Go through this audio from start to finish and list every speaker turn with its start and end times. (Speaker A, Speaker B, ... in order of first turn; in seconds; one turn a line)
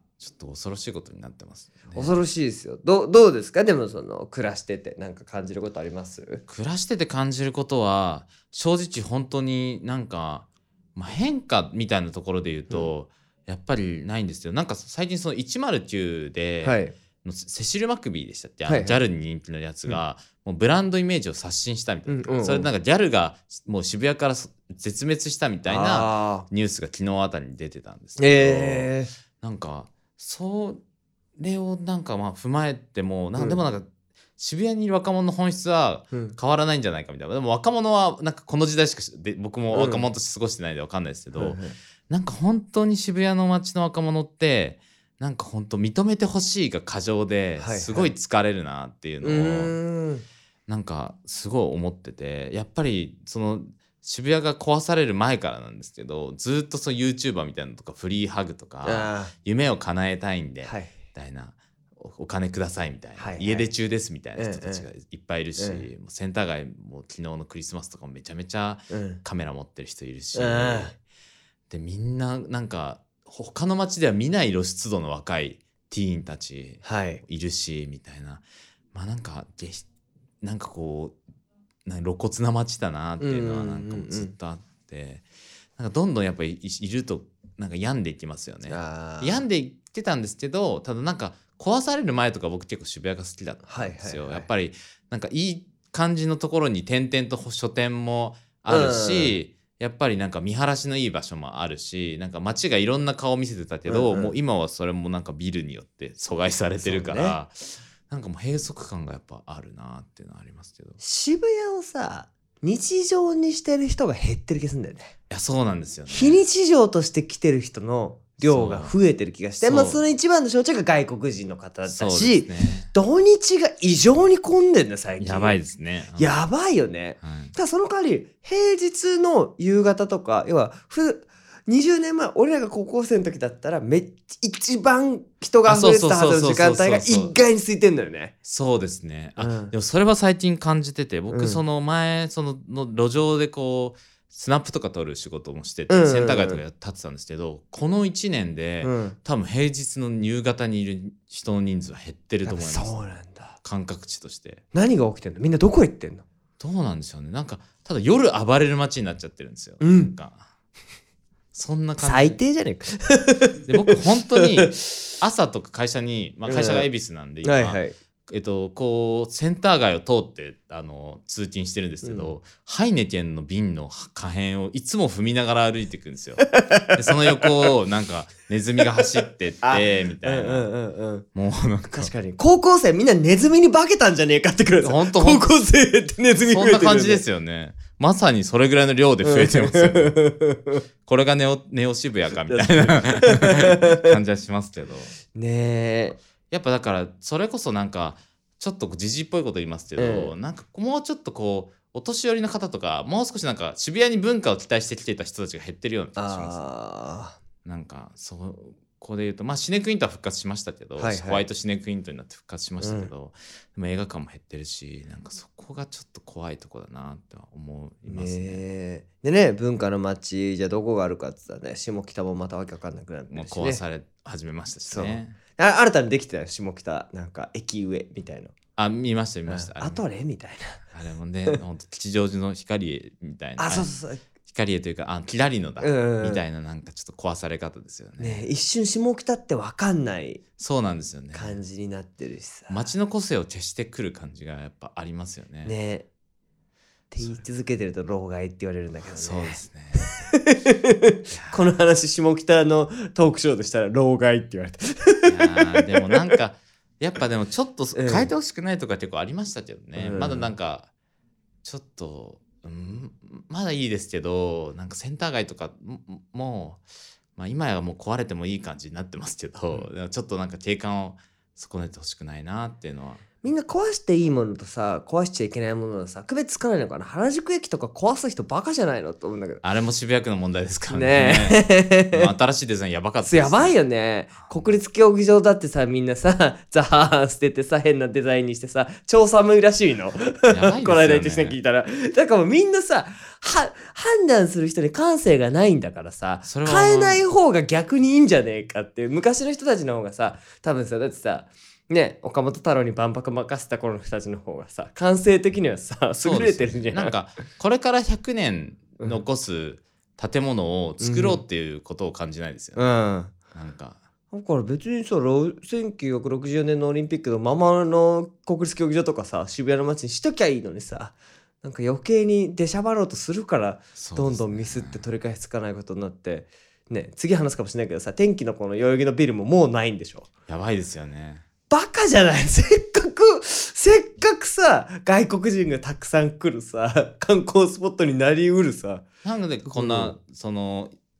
Speaker A: 0.2-2.2
Speaker B: 1.9-6.4
Speaker A: 6.5-30.8
Speaker B: 16.6-16.9
Speaker B: 18.7-19.0
Speaker B: 22.1-22.7
Speaker B: 25.6-26.5
Speaker B: 28.2-29.1
Speaker A: 31.4-33.9
Speaker B: 33.4-33.6
Speaker A: 34.4-41.6
Speaker B: 39.7-40.0
Speaker B: 41.3-41.7
Speaker A: 42.1-49.7
Speaker B: 47.6-48.1
Speaker B: 49.2-50.2
Speaker A: 50.7-71.0
Speaker B: 58.8-59.3
Speaker B: 60.6-60.9
Speaker B: 63.2-63.7
Speaker B: 64.3-64.9
Speaker B: 65.6-65.9
Speaker B: 68.9-69.2
Speaker B: 70.3-70.9
Speaker A: 71.7-79.8
Speaker B: 76.8-77.2
Speaker A: 80.4-81.2
Speaker A: 81.8-85.2
Speaker B: 83.2-84.3
Speaker A: 85.8-111.0
Speaker B: 88.7-89.4
Speaker B: 93.6-94.5
Speaker B: 98.7-99.4
Speaker B: 103.9-104.3
Speaker B: 106.8-107.3
Speaker B: 111.0-115.1
Speaker A: 115.3-116.4
Speaker B: 116.1-125.6
Speaker A: 118.4-118.9
Speaker A: 119.6-120.0
Speaker A: 121.9-122.9
Speaker A: 125.2-126.3
Speaker B: 126.2-138.3
Speaker A: 127.2-127.5
Speaker A: 135.7-137.3
Speaker A: 138.4-154.6
Speaker B: 139.4-139.7
Speaker B: 141.3-141.6
Speaker B: 145.9-146.6
Speaker B: 148.8-149.2
Speaker B: 152.4-153.6
Speaker B: 154.7-156.2
Speaker A: 156.6-160.4
Speaker B: 159.8-160.1
Speaker A: 161.5-162.4
Speaker B: 162.0-164.8
Speaker A: 163.7-180.7
Speaker B: 166.4-166.9
Speaker B: 167.4-167.9
Speaker B: 172.0-172.3
Speaker B: 176.4-177.7
Speaker B: 179.6-181.3
Speaker A: 181.3-182.1
Speaker B: 181.9-187.2
Speaker A: 184.8-185.5
Speaker A: 186.4-190.2
Speaker B: 189.2-190.8
Speaker A: 191.1-195.1
Speaker B: 192.4-194.0
Speaker B: 195.3-196.2
Speaker A: 196.5-206.6
Speaker B: 200.0-200.3
Speaker B: 206.2-207.4
Speaker A: 207.6-218.6
Speaker B: 211.0-211.4
Speaker B: 212.8-213.1
Speaker B: 218.1-223.8
Speaker A: 223.3-225.4
Speaker B: 224.9-228.5
Speaker A: 228.8-230.0
Speaker B: 229.5-230.8
Speaker A: 230.9-233.9
Speaker B: 233.6-234.2
Speaker A: 234.5-238.4
Speaker B: 235.8-236.4
Speaker B: 238.2-240.4
Speaker A: 240.6-241.6
Speaker B: 241.3-242.9
Speaker A: 242.7-245.7
Speaker B: 245.6-246.1
Speaker B: 247.1-256.1
Speaker A: 249.1-250.1
Speaker A: 251.3-251.6
Speaker A: 255.2-260.9
Speaker B: 257.9-258.3
Speaker B: 259.9-260.5
Speaker A: 261.6-266.8
Speaker A: 267.4-273.2
Speaker B: 273.4-279.6
Speaker A: 279.6-283.7
Speaker B: 280.9-282.3
Speaker B: 283.2-307.1
Speaker A: 290.5-291.6
Speaker A: 296.4-297.2
Speaker A: 306.2-312.8
Speaker B: 311.0-311.4
Speaker B: 312.8-313.3
Speaker A: 313.5-314.0
Speaker B: 314.3-330.3
Speaker A: 323.9-325.0
Speaker A: 330.5-331.4
Speaker B: 331.7-339.1
Speaker A: 339.2-340.9
Speaker B: 339.7-340.1